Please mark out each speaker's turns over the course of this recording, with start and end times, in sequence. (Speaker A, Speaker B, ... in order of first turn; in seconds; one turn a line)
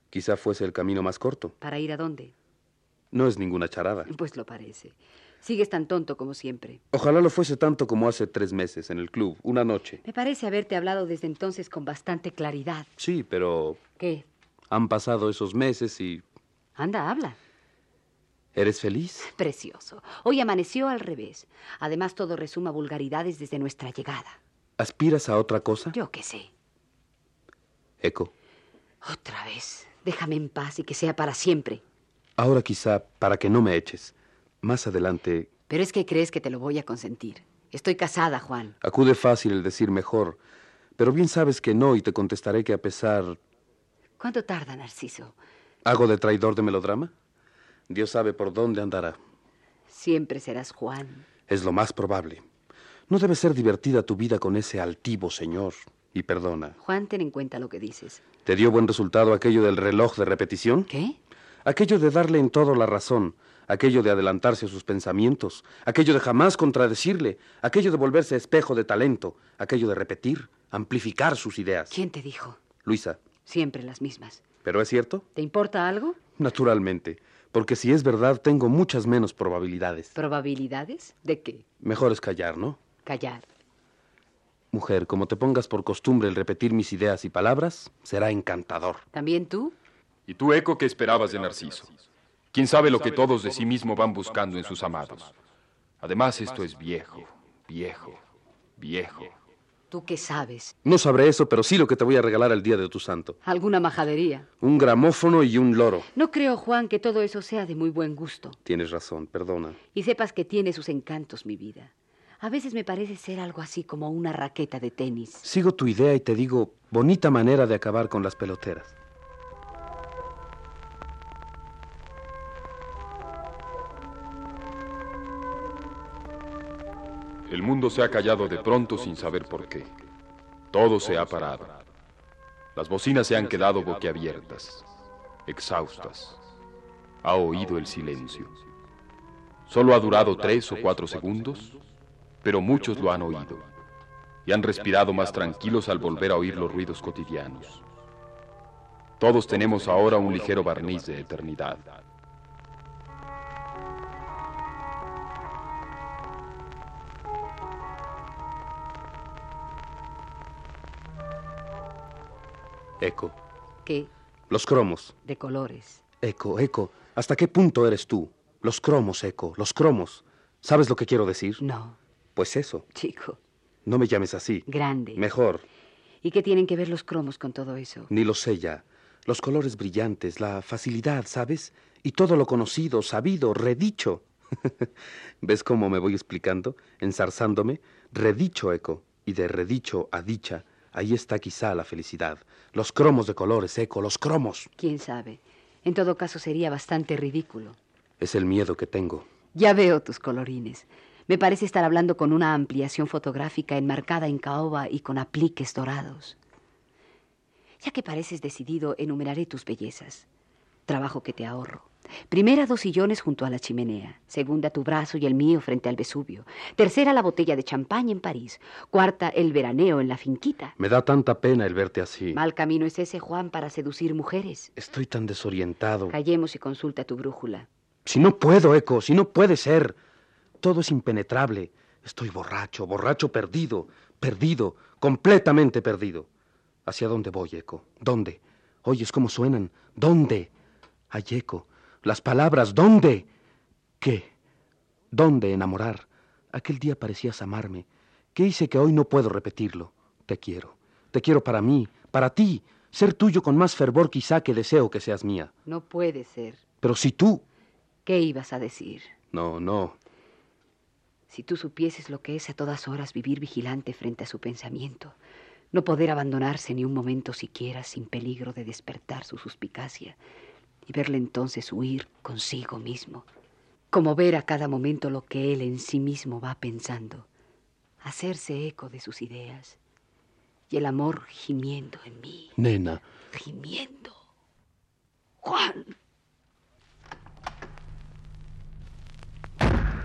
Speaker A: 0.1-1.5
Speaker B: 1.6-2.3
Speaker A: 3.1-4.1
Speaker B: 4.0-6.8
Speaker A: 6.9-10.0
Speaker B: 10.0-12.9
Speaker A: 13.0-13.8
Speaker B: 14.0-14.2
Speaker A: 14.7-16.2
Speaker B: 16.8-17.4
Speaker A: 18.5-19.3
Speaker B: 19.2-24.4
Speaker A: 24.8-25.9
Speaker B: 25.9-26.5
Speaker A: 28.0-28.3
Speaker B: 29.0-31.8
Speaker A: 32.4-35.5
Speaker B: 35.7-38.7
Speaker A: 38.8-40.4
Speaker A: 41.0-43.4
Speaker B: 44.2-45.3
Speaker A: 45.8-47.1
Speaker A: 47.9-49.2
Speaker B: 49.9-51.2
Speaker A: 51.5-52.4
Speaker A: 53.1-56.8
Speaker B: 56.8-58.2
Speaker A: 58.4-60.9
Speaker B: 60.9-61.2
Speaker A: 61.6-71.9
Speaker B: 71.9-72.6
Speaker A: 72.8-73.2
Speaker B: 73.4-74.4
Speaker A: 74.6-75.2
Speaker B: 75.3-76.2
Speaker A: 76.4-80.1
Speaker B: 80.1-81.6
Speaker A: 81.8-82.8
Speaker B: 83.0-83.4
Speaker A: 84.7-89.0
Speaker B: 89.1-89.7
Speaker C: 90.3-91.9
Speaker C: 92.5-95.3
Speaker C: 96.0-98.2
Speaker C: 98.8-99.3
Speaker B: 99.9-100.7
Speaker A: 100.8-103.4
Speaker B: 103.4-104.5
Speaker A: 104.6-106.1
Speaker B: 106.1-108.6
Speaker A: 108.6-109.8
Speaker B: 109.9-115.5
Speaker A: 115.4-118.9
Speaker C: 127.5-129.9
Speaker C: 130.7-131.8
Speaker C: 132.8-134.8
Speaker C: 135.5-136.4
Speaker C: 137.2-138.5
Speaker C: 139.7-141.8
Speaker C: 142.4-143.7
Speaker C: 144.4-147.8
Speaker C: 149.2-151.8
Speaker A: 163.0-163.4
Speaker B: 163.8-164.1
Speaker A: 164.5-165.1
Speaker B: 165.2-166.0
Speaker A: 166.2-171.6
Speaker B: 171.6-172.0
Speaker A: 172.3-172.8
Speaker B: 172.9-173.4
Speaker A: 173.8-175.6
Speaker B: 174.7-175.2
Speaker B: 176.2-178.1
Speaker A: 178.1-184.9
Speaker A: 185.4-194.7
Speaker B: 194.8-197.8
Speaker A: 198.2-199.3
Speaker B: 199.5-206.4
Speaker B: 207.8-210.3
Speaker B: 210.9-220.8
Speaker A: 220.8-222.4
Speaker B: 222.3-224.7
Speaker A: 224.8-226.1
Speaker B: 226.1-227.7
Speaker A: 228.0-230.0
Speaker A: 230.6-236.3
Speaker A: 236.8-240.5
Speaker A: 241.1-243.3
Speaker A: 244.0-244.3
Speaker A: 245.1-255.5
Speaker B: 255.7-256.6
Speaker A: 256.8-257.4
Speaker B: 258.1-259.1
Speaker A: 259.3-260.0
Speaker B: 261.3-265.1
Speaker B: 265.7-270.2
Speaker B: 270.9-273.2
Speaker B: 273.9-277.3
Speaker B: 278.0-279.8
Speaker B: 280.7-282.6
Speaker A: 282.6-283.0
Speaker B: 283.3-284.2
Speaker B: 285.4-285.9